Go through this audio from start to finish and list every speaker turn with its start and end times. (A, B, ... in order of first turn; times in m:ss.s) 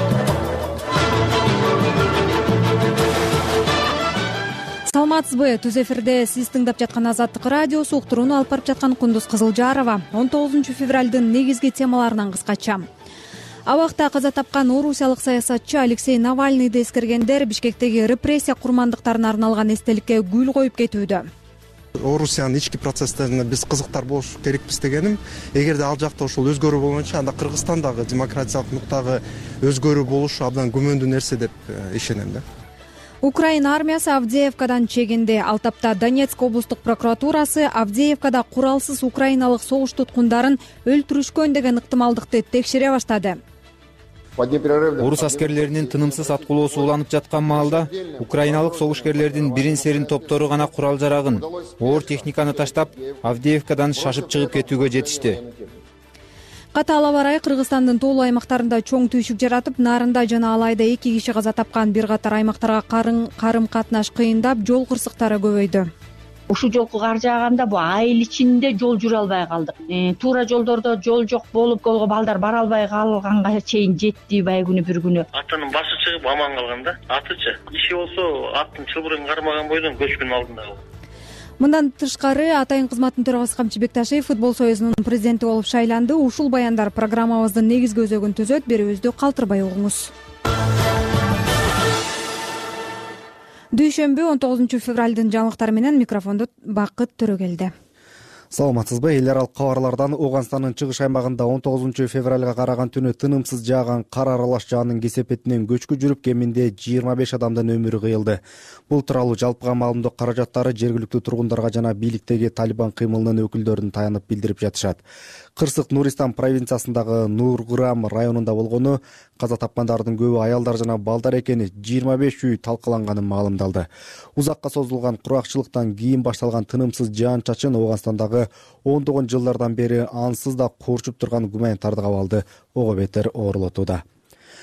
0:04.9-0:12.9 A
0:13.7-0:21.3 A
0:22.0-0:32.4 B
0:33.2-0:43.4 A
0:45.0-0:55.4 C
0:56.7-1:05.9 A
1:06.5-1:15.3 D
1:15.3-1:20.8 E
1:21.6-1:30.1 A
1:33.7-1:37.7 A
1:38.5-1:55.0 F
1:55.6-2:14.0 F